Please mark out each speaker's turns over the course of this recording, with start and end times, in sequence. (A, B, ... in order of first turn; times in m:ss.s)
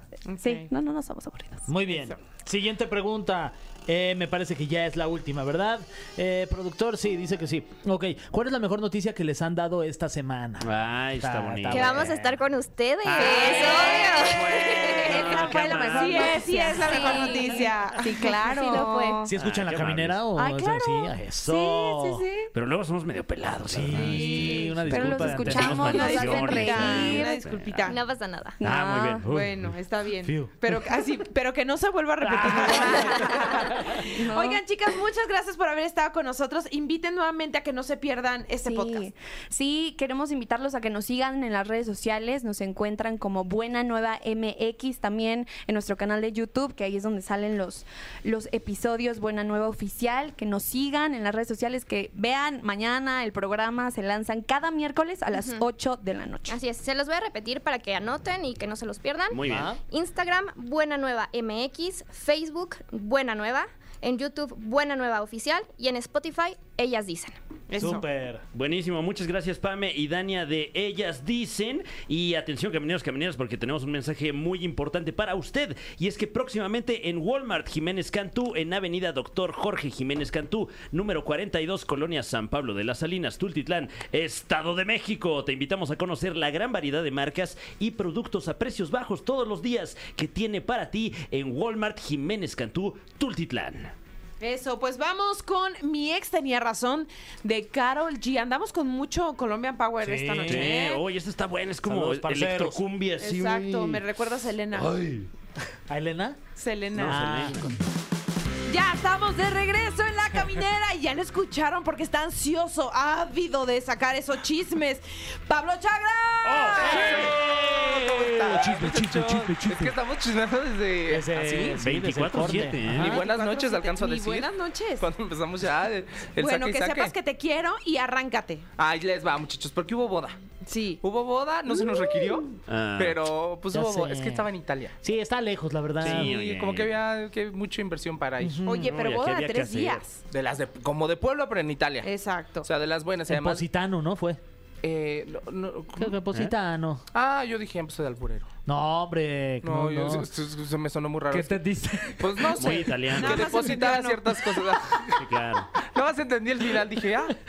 0:00.3-0:00.7 A
0:00.4-0:01.8 B
0:01.7-0:12.1 C
0:10.6-0:12.4 D
0:11.7-0:15.3 E
0:13.0-0:16.4 D
0:13.2-0:14.4 A
0:13.7-0:19.3 B
0:15.0-0:18.8 A
0:15.5-0:15.9 C
0:16.7-0:17.7 E
0:18.4-0:19.2 E
0:19.3-0:22.2 C
0:19.4-0:20.2 D
0:20.3-0:22.2 B
0:22.5-0:27.9 D
0:23.7-0:26.0 C
0:23.9-0:24.8 A
0:24.8-0:27.4 B
0:25.6-0:28.0 A
0:27.8-0:28.6 E
0:28.6-0:29.3 B
0:28.6-0:29.8 D
0:29.3-0:39.1 A
0:30.2-0:30.5 C
0:32.2-0:32.9 C
0:32.4-0:34.6 B
0:38.6-0:56.6 B
0:55.3-0:55.6 E
0:56.5-1:07.4 E
0:59.3-0:59.7 D
0:59.4-0:59.8 C
1:07.7-1:08.0 A
1:07.8-1:08.4 C
1:08.5-1:33.9 D
1:34.4-1:41.0 A
1:40.0-1:40.8 C
1:40.4-1:44.0 D
1:41.8-1:42.8 C
1:43.2-1:45.0 A
1:44.7-1:45.3 D
1:45.9-1:46.4 C
1:46.6-1:47.4 A
1:47.0-1:47.8 D
1:47.0-1:47.7 C
1:48.7-1:57.2 A
1:56.5-1:58.2 D
1:56.6-2:01.8 F
1:57.0-1:57.3 C
1:58.4-2:00.0 C
2:01.1-2:03.2 C
2:01.8-2:03.2 D
2:02.9-2:04.5 F
2:03.0-2:05.1 A
2:05.0-2:07.1 F
2:06.4-2:08.6 A
2:08.8-2:10.5 F
2:10.6-2:11.0 A
2:11.0-2:14.9 F
2:11.9-2:12.4 B
2:12.7-2:13.2 D
2:13.7-2:16.3 C
2:16.0-2:16.9 D
2:16.0-2:18.7 F
2:18.4-2:18.8 C
2:18.6-2:20.2 A
2:18.7-2:20.0 D
2:20.3-2:22.1 F
2:22.0-2:22.7 A
2:22.6-2:23.6 F
2:23.3-2:24.4 C
2:24.8-2:26.1 F
2:26.0-2:27.0 C
2:27.1-2:28.5 F
2:28.6-2:30.3 C
2:29.6-2:31.6 F
2:31.3-2:32.6 C
2:32.2-2:35.2 F
2:32.6-2:33.6 D
2:32.7-2:34.5 A
2:35.2-2:35.7 D
2:35.8-2:37.3 F